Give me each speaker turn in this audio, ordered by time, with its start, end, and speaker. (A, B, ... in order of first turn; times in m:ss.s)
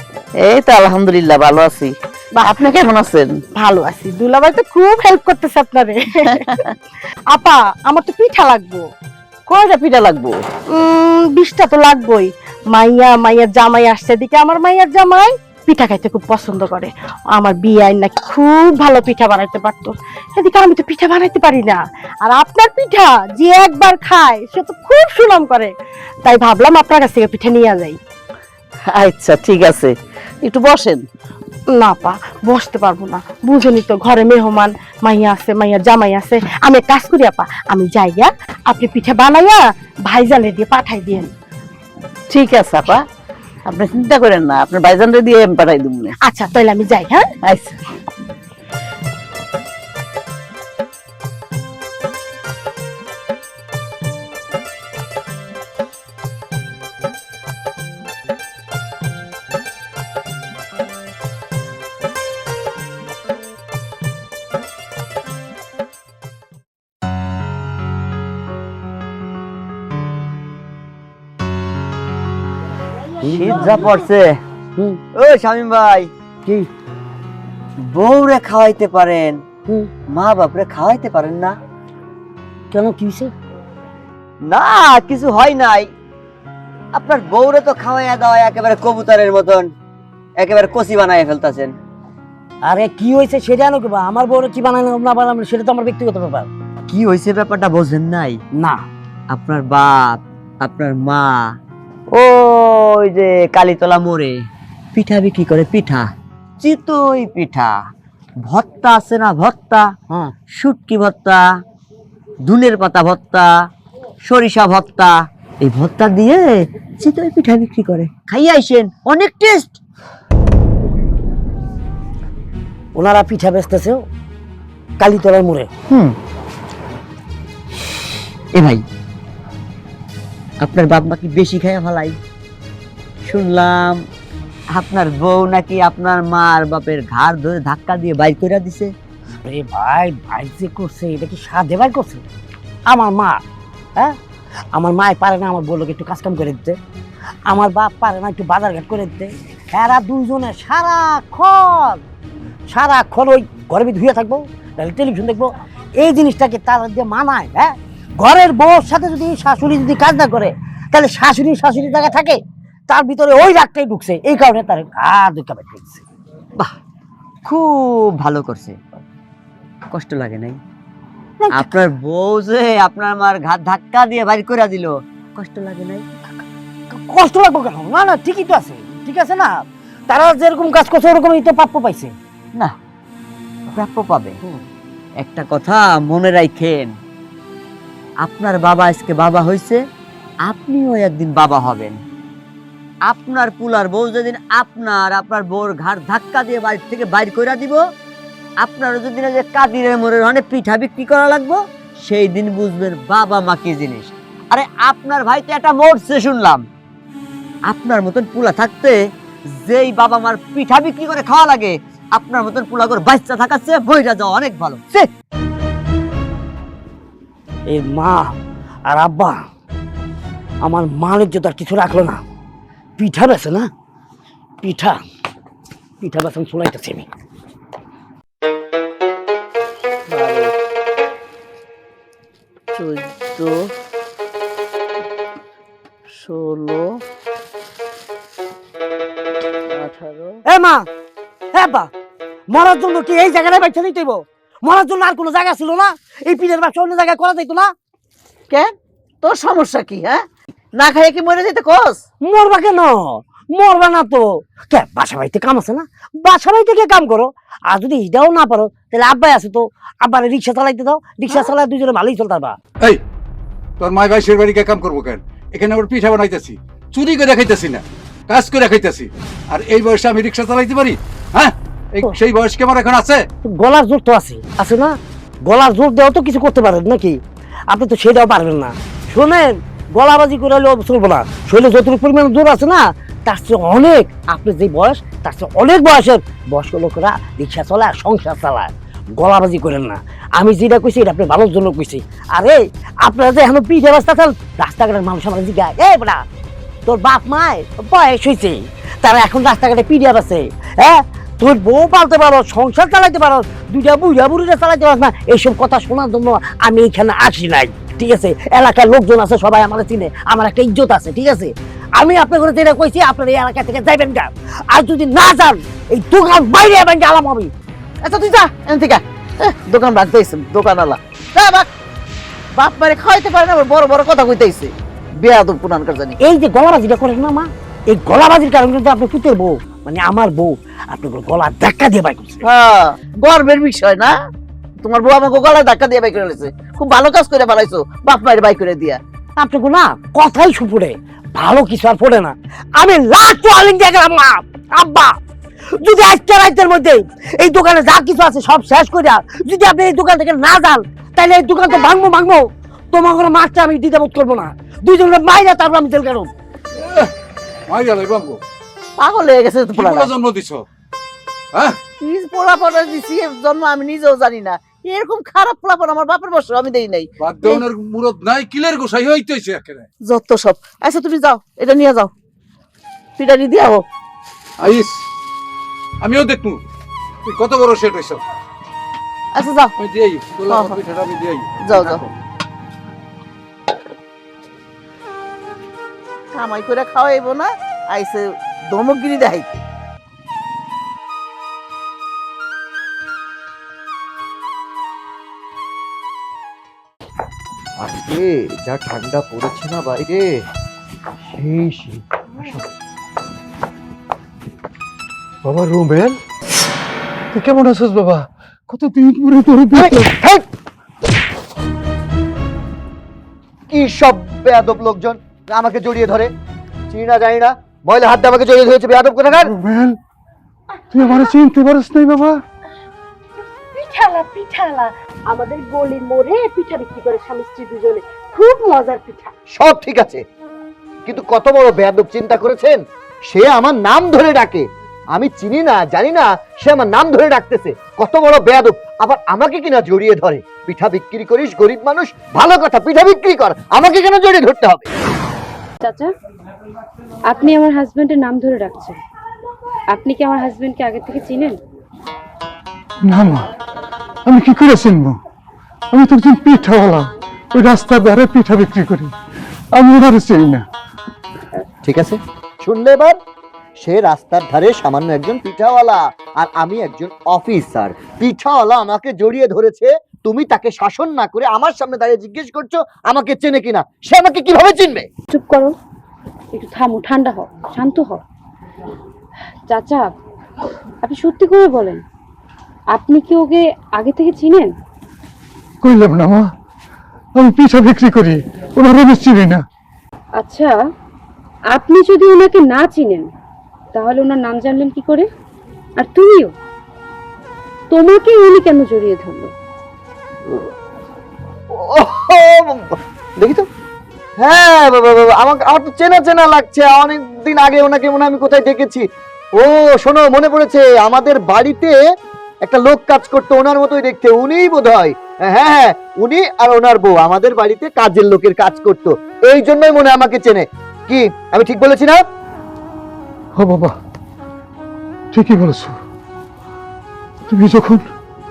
0:00.4-0:03.4 A
0:03.6-0:06.5 B
0:06.3-0:06.6 A
0:07.3-0:08.8 B
0:09.5-0:10.4 A
0:10.7-0:25.7 B
0:26.2-0:28.0 B
0:28.9-0:31.1 A
0:31.7-0:41.3 B
0:42.3-0:43.0 A
0:43.7-0:46.2 A
0:46.2-0:47.3 B
0:47.4-0:47.8 A
1:13.2-1:14.1 C
1:13.3-1:14.4 D
1:15.2-1:16.1 D
1:17.8-1:19.4 D
1:20.1-1:21.6 D
1:22.7-1:23.3 C
1:24.4-1:25.9 D
1:26.9-1:29.7 D
1:30.4-1:31.8 D
1:32.6-1:36.5 C
1:36.9-1:38.4 D
1:38.6-1:38.8 C
1:39.3-1:41.5 D
1:42.1-1:44.4 D
1:44.9-1:46.1 D
1:46.6-1:47.8 D
1:48.4-1:49.9 D
1:50.5-1:51.4 D
1:52.4-1:53.5 D
1:54.3-1:59.8 D
2:03.0-2:04.0 C
2:05.0-2:05.7 C
2:08.6-2:08.8 D
2:10.6-2:12.2 D
2:13.3-2:14.0 D
2:14.7-2:18.9 D
2:19.4-2:22.2 C
2:22.9-2:23.4 C
2:24.8-2:26.8 C
2:27.5-2:32.0 C
2:32.7-2:46.0 C
2:47.4-2:48.8 D
2:49.9-2:50.6 D
2:51.4-2:51.8 C
2:51.5-2:56.1 D
2:56.9-3:02.1 C
3:03.7-3:04.4 D
3:05.2-3:06.9 D
3:08.2-3:09.8 D
3:10.4-3:12.0 D
3:13.1-3:17.8 D
3:18.6-3:26.6 D
3:27.7-3:29.0 D
3:29.6-3:35.1 D
3:37.7-3:38.3 C
3:38.9-3:39.4 C
3:40.6-3:42.2 C
3:43.0-3:43.7 C
3:44.6-3:45.0 C
3:46.0-3:47.1 C
3:50.1-3:50.5 A
3:52.7-3:53.7 A
3:56.1-3:57.0 A
3:59.7-4:00.4 A
4:00.5-4:00.9 C
4:01.5-4:01.9 C
4:02.5-4:07.7 C
4:08.5-4:10.2 A
4:10.8-4:12.0 A
4:12.2-4:22.6 C
4:23.8-4:33.2 E
4:33.4-4:56.2 C
4:56.9-5:17.5 C
5:18.0-5:21.7 A
5:22.6-5:26.2 A
5:26.2-5:32.4 C
5:32.4-5:34.1 A
5:34.8-5:39.0 A
5:39.4-5:45.2 C
5:45.8-5:56.3 C
5:56.8-5:57.1 E
5:57.7-5:58.4 E
5:59.0-6:00.1 A
5:59.8-6:00.6 E
6:02.0-6:07.6 A
6:07.2-6:09.9 E
6:10.0-6:12.1 A
6:13.2-6:13.8 A
6:14.6-6:15.0 E
6:16.0-6:16.6 E
6:17.2-6:18.2 E
6:19.4-6:19.7 A
6:19.8-6:22.1 E
6:20.5-6:20.8 A
6:21.6-6:22.0 A
6:26.4-6:29.6 A
6:37.8-6:40.4 F
6:41.3-6:42.7 F
6:45.4-6:46.2 G
6:47.3-6:50.1 G
6:49.7-6:50.4 F
6:53.7-6:56.3 F
6:56.9-6:59.5 F
6:59.3-7:00.0 G
7:00.9-7:02.4 G
7:03.7-7:09.4 B
7:09.5-7:10.2 F
7:11.0-7:24.9 F
7:25.8-7:26.1 H
7:27.3-7:29.0 H
7:29.9-7:31.6 H
7:33.0-7:33.5 G
7:34.3-7:35.2 G
7:35.9-7:39.1 G
7:39.7-7:40.6 G
7:41.8-7:43.2 F
7:43.8-7:55.1 F
7:55.3-7:55.8 H
7:56.5-7:58.2 H
7:59.7-8:00.1 H
8:01.0-8:02.0 H
8:02.9-8:04.7 H
8:05.8-8:06.5 G
8:07.4-8:09.6 G
8:10.4-8:10.8 H
8:11.7-8:13.3 H
8:13.9-8:15.3 H
8:16.0-8:16.5 H
8:17.9-8:19.5 H
8:21.7-8:23.7 F
8:24.4-8:32.0 F
8:32.6-8:42.2 F
8:43.6-8:44.0 G
8:45.3-8:46.0 G
8:47.5-8:48.0 G